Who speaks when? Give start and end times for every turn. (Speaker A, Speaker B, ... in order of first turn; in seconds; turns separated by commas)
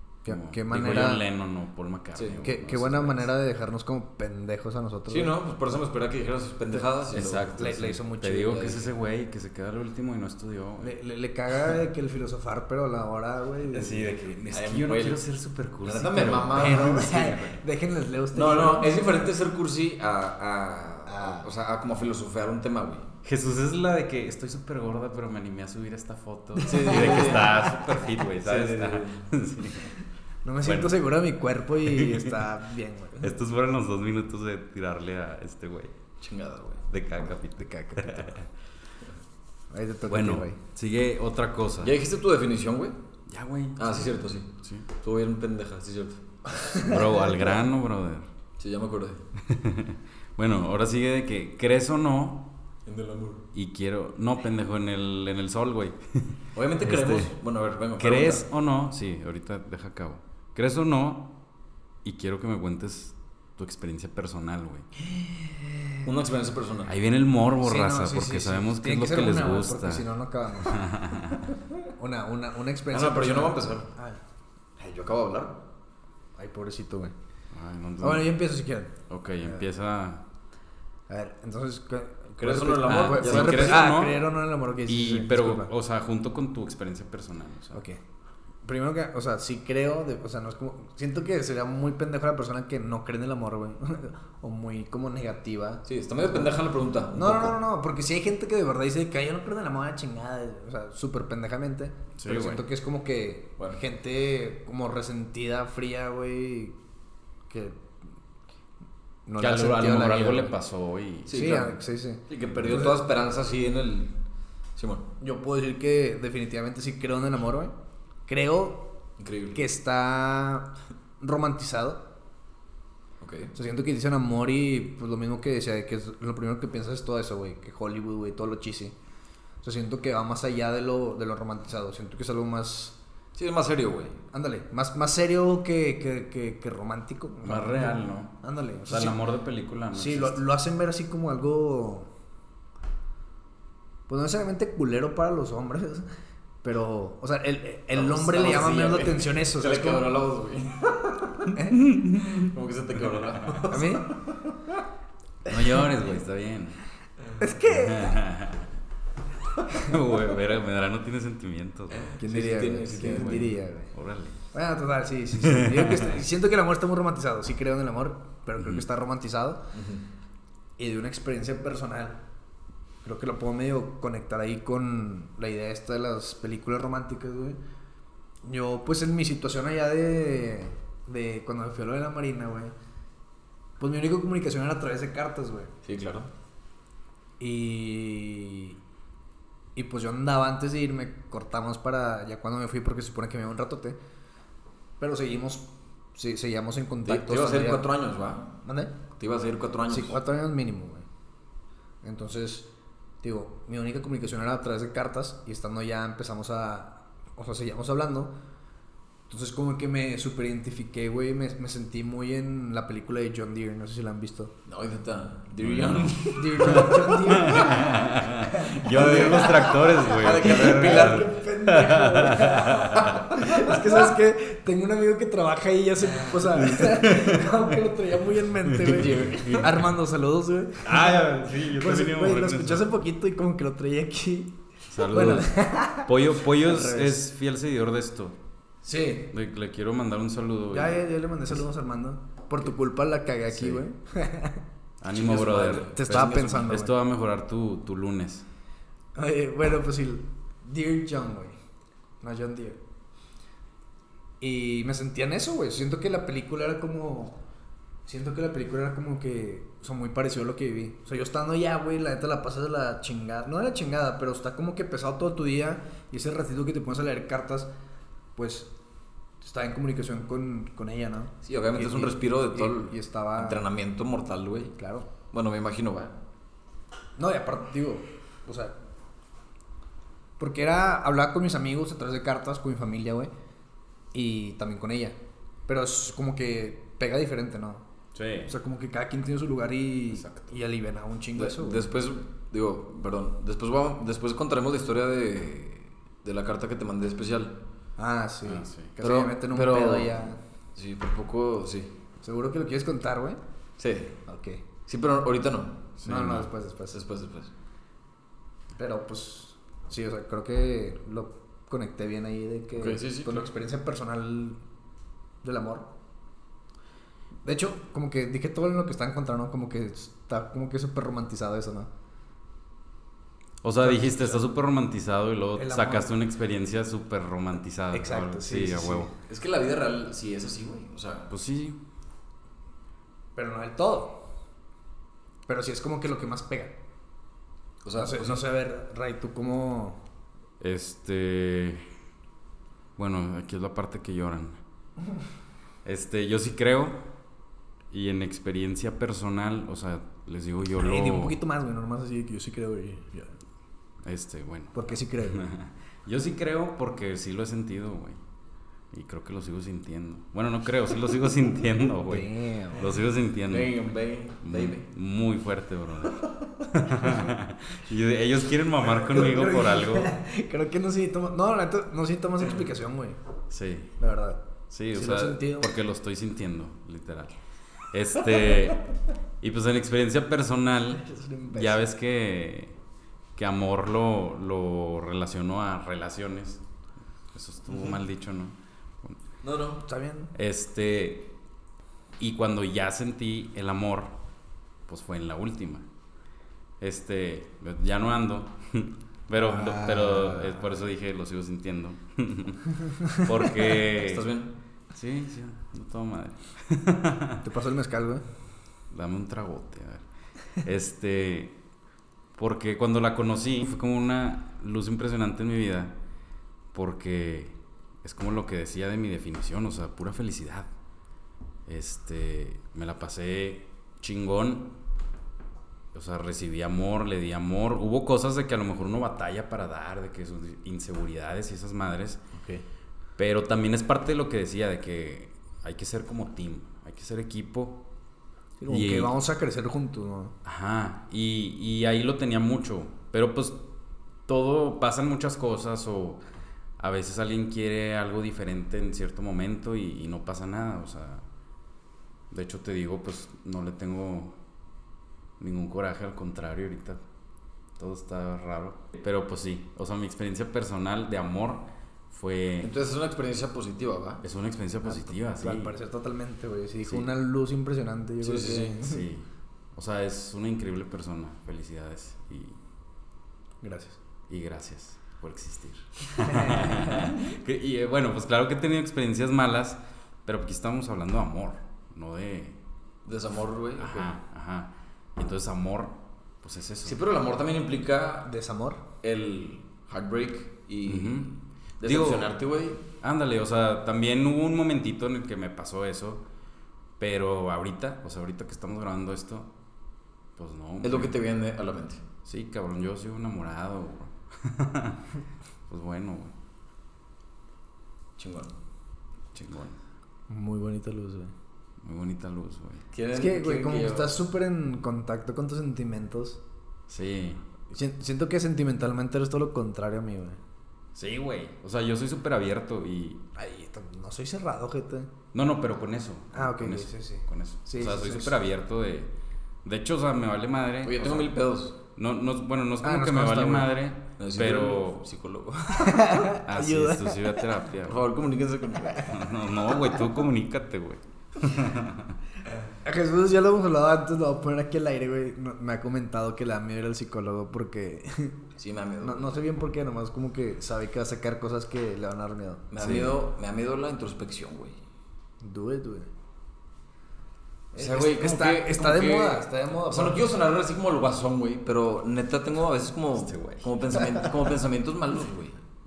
Speaker A: 0.2-1.2, Speaker B: 0.3-3.3, Speaker C: 2.1-2.4, Speaker A: 2.4-5.3, Speaker C: 5.1-7.8, Speaker B: 7.1-10.9, Speaker A: 7.5-8.7, Speaker C: 8.5-8.9, Speaker A: 10.8-14.1, Speaker B: 13.7-17.6, Speaker C: 14.5-15.2, Speaker C: 15.8-17.1, Speaker A: 16.4-19.2, Speaker C: 18.3-23.1, Speaker A: 21.1-21.4, Speaker B: 23.2-29.9, Speaker A: 26.6-27.5, Speaker C: 26.6-27.8, Speaker C: 28.4-29.3, Speaker A: 30.4-33.3, Speaker B: 30.6-31.0, Speaker B: 31.8-32.5, Speaker B: 33.2-36.0, Speaker C: 36.2-36.8, Speaker B: 36.9-38.5, Speaker A: 37.8-38.3, Speaker A: 39.7-40.6, Speaker B: 40.1-42.0, Speaker C: 41.8-43.0, Speaker B: 43.3-44.9, Speaker C: 43.8-46.2, Speaker A: 46.6-47.4, Speaker B: 46.8-48.3, Speaker C: 48.6-49.2, Speaker B: 49.4-52.5, Speaker C: 52.9-53.5, Speaker B: 53.5-57.3, Speaker C: 56.5-58.4, Speaker B: 58.0-61.3, Speaker B: 62.0-64.9, Speaker C: 66.0-66.9, Speaker B: 66.9-70.1, Speaker A: 67.6-70.9, Speaker B: 70.6-71.5, Speaker A: 71.9-74.2, Speaker C: 72.9-73.9, Speaker C: 74.8-75.6, Speaker A: 76.4-77.1, Speaker B: 77.5-78.3, Speaker A: 78.0-79.6, Speaker B: 79.1-80.2, Speaker A: 81.1-85.7, Speaker C: 82.4-83.8, Speaker B: 82.8-87.8, Speaker A: 87.7-88.0, Speaker A: 88.6-96.5, Speaker C: 95.8-97.6, Speaker A: 97.1-106.8, Speaker B: 102.2-102.6, Speaker A: 107.5-107.8, Speaker A: 109.2-110.5, Speaker B: 109.4-111.5, Speaker C: 111.3-111.7, Speaker A: 111.3-113.0, Speaker C: 112.3-114.2, Speaker C: 114.8-115.0, Speaker A: 115.2-117.7, Speaker A: 118.3-118.9, Speaker C: 119.2-119.6, Speaker A: 119.5-122.0, Speaker C: 123.2-123.5, Speaker A: 123.5-128.9, Speaker A: 129.6-132.9, Speaker C: 133.3-134.2, Speaker A: 134.3-139.2, Speaker B: 137.4-138.3, Speaker B: 138.9-140.4, Speaker A: 139.9-142.1, Speaker A: 144.1-146.1, Speaker A: 146.6-150.1, Speaker C: 147.9-151.4, Speaker A: 151.5-151.8, Speaker B: 151.7-152.3, Speaker C: 152.1-154.4, Speaker A: 153.7-154.1, Speaker B: 155.4-156.8, Speaker A: 157.4-158.2, Speaker B: 157.7-158.7, Speaker B: 159.7-162.1, Speaker C: 161.9-163.5, Speaker A: 162.2-163.9, Speaker B: 163.0-164.4, Speaker A: 164.5-169.6, Speaker B: 165.4-166.1, Speaker B: 168.6-168.8, Speaker C: 169.7-170.0, Speaker A: 170.8-172.2, Speaker A: 173.0-177.6, Speaker A: 178.4-182.7, Speaker A: 183.8-185.7, Speaker C: 185.8-186.3, Speaker A: 187.4-188.8, Speaker A: 189.8-194.0, Speaker A: 195.0-197.9, Speaker C: 197.1-198.6, Speaker A: 198.6-198.9, Speaker C: 199.2-200.2, Speaker A: 199.9-201.0, Speaker A: 202.0-202.7, Speaker A: 203.2-208.3, Speaker A: 209.3-214.5, Speaker C: 214.7-217.5, Speaker B: 215.6-223.2, Speaker A: 215.8-237.2, Speaker C: 218.9-221.3, Speaker B: 226.5-227.7, Speaker B: 228.6-229.7, Speaker C: 228.9-229.8, Speaker B: 230.8-232.8, Speaker B: 234.9-238.4, Speaker A: 238.8-239.3, Speaker B: 239.3-241.6, Speaker A: 240.7-244.6, Speaker B: 243.5-243.8, Speaker B: 245.0-248.4, Speaker C: 245.1-246.6, Speaker A: 245.7-246.9, Speaker A: 249.2-251.6, Speaker A: 252.2-252.8, Speaker A: 254.4-257.4, Speaker A: 258.1-267.7, Speaker A: 268.4-268.7, Speaker A: 269.4-273.7, Speaker C: 271.4-274.7, Speaker A: 274.8-275.1, Speaker C: 275.3-276.1, Speaker A: 277.2-278.7, Speaker A: 280.4-283.3, Speaker A: 284.1-285.1, Speaker A: 285.7-287.8, Speaker B: 288.1-288.5, Speaker A: 288.5-291.8, Speaker B: 290.1-290.6, Speaker C: 291.4-297.6, Speaker A: 298.0-300.4, Speaker B: 298.4-298.9, Speaker C: 299.0-300.1, Speaker C: 300.7-301.9, Speaker A: 302.2-303.4, Speaker C: 303.8-304.2, Speaker A: 304.3-304.6, Speaker C: 304.9-305.9, Speaker B: 306.0-306.5, Speaker A: 306.0-307.0, Speaker C: 306.9-307.5, Speaker A: 308.8-314.6, Speaker C: 312.8-313.5, Speaker A: 315.4-315.9, Speaker A: 317.4-321.9, Speaker B: 323.6-329.1, Speaker A: 323.8-324.4, Speaker A: 325.6-326.1, Speaker A: 327.9-329.1, Speaker C: 329.2-331.3, Speaker B: 331.3-331.8, Speaker A: 333.4-334.2, Speaker A: 335.5-336.7, Speaker C: 337.8-338.4, Speaker A: 337.9-340.0, Speaker B: 340.6-341.9, Speaker B: 342.9-344.6, Speaker B: 345.8-347.0, Speaker B: 347.9-351.4, Speaker A: 350.8-353.3, Speaker B: 354.0-358.2, Speaker A: 354.7-355.4, Speaker B: 358.9-363.8, Speaker A: 362.1-363.0, Speaker C: 363.5-364.9, Speaker B: 364.4-370.1, Speaker A: 368.8-373.2, Speaker B: 373.5-373.9, Speaker A: 374.0-374.4, Speaker B: 374.7-377.4, Speaker A: 374.9-375.7, Speaker B: 377.9-378.8, Speaker B: 379.4-382.8, Speaker A: 381.0-381.9, Speaker B: 383.4-386.6, Speaker B: 387.3-389.2, Speaker C: 389.4-389.9, Speaker A: 389.9-390.3, Speaker B: 390.3-391.3, Speaker B: 392.2-394.1, Speaker B: 394.9-395.9, Speaker B: 396.8-404.2, Speaker A: 399.4-400.6, Speaker C: 403.9-404.5, Speaker B: 404.9-407.4, Speaker A: 407.4-408.2, Speaker B: 408.9-410.0, Speaker B: 410.6-411.6, Speaker B: 412.4-415.9, Speaker B: 416.7-420.7, Speaker B: 421.6-424.7, Speaker B: 425.9-432.2, Speaker B: 433.2-437.8, Speaker A: 438.6-440.3, Speaker B: 438.7-439.1, Speaker B: 440.4-443.6, Speaker B: 444.3-446.2, Speaker B: 446.8-451.2, Speaker B: 452.3-454.4, Speaker B: 455.4-457.0, Speaker B: 457.8-462.7, Speaker C: 462.6-464.2, Speaker B: 464.2-465.7, Speaker A: 465.4-469.0, Speaker C: 468.2-468.8, Speaker B: 468.8-472.6, Speaker A: 473.6-474.0, Speaker B: 474.3-482.6, Speaker A: 476.2-477.2, Speaker C: 483.1-484.1, Speaker B: 483.8-487.0, Speaker C: 486.8-488.3, Speaker A: 488.2-488.8, Speaker C: 489.0-492.8, Speaker B: 490.9-492.3, Speaker B: 493.0-496.2, Speaker B: 497.0-499.5, Speaker B: 500.4-501.2, Speaker C: 500.8-502.0, Speaker B: 502.2-505.1, Speaker B: 505.7-506.3, Speaker C: 508.2-508.5, Speaker B: 509.3-509.8, Speaker A: 510.3-511.3, Speaker B: 511.8-512.8, Speaker C: 512.9-514.1, Speaker A: 513.1-516.4, Speaker B: 516.9-517.4, Speaker A: 517.7-520.4, Speaker B: 520.9-523.2, Speaker A: 523.3-525.1, Speaker B: 525.3-529.1, Speaker A: 526.3-528.3, Speaker B: 529.6-531.4, Speaker C: 530.8-531.8, Speaker B: 531.9-535.0, Speaker A: 532.8-533.7, Speaker C: 534.2-536.1, Speaker A: 535.8-537.4, Speaker B: 536.4-538.0, Speaker C: 537.8-539.2, Speaker B: 539.0-542.2, Speaker A: 542.8-548.4, Speaker C: 548.6-549.4, Speaker A: 549.0-552.7, Speaker C: 552.7-554.8, Speaker B: 552.8-553.1, Speaker A: 555.4-556.1, Speaker A: 557.7-560.3, Speaker C: 557.8-565.6, Speaker B: 563.2-563.7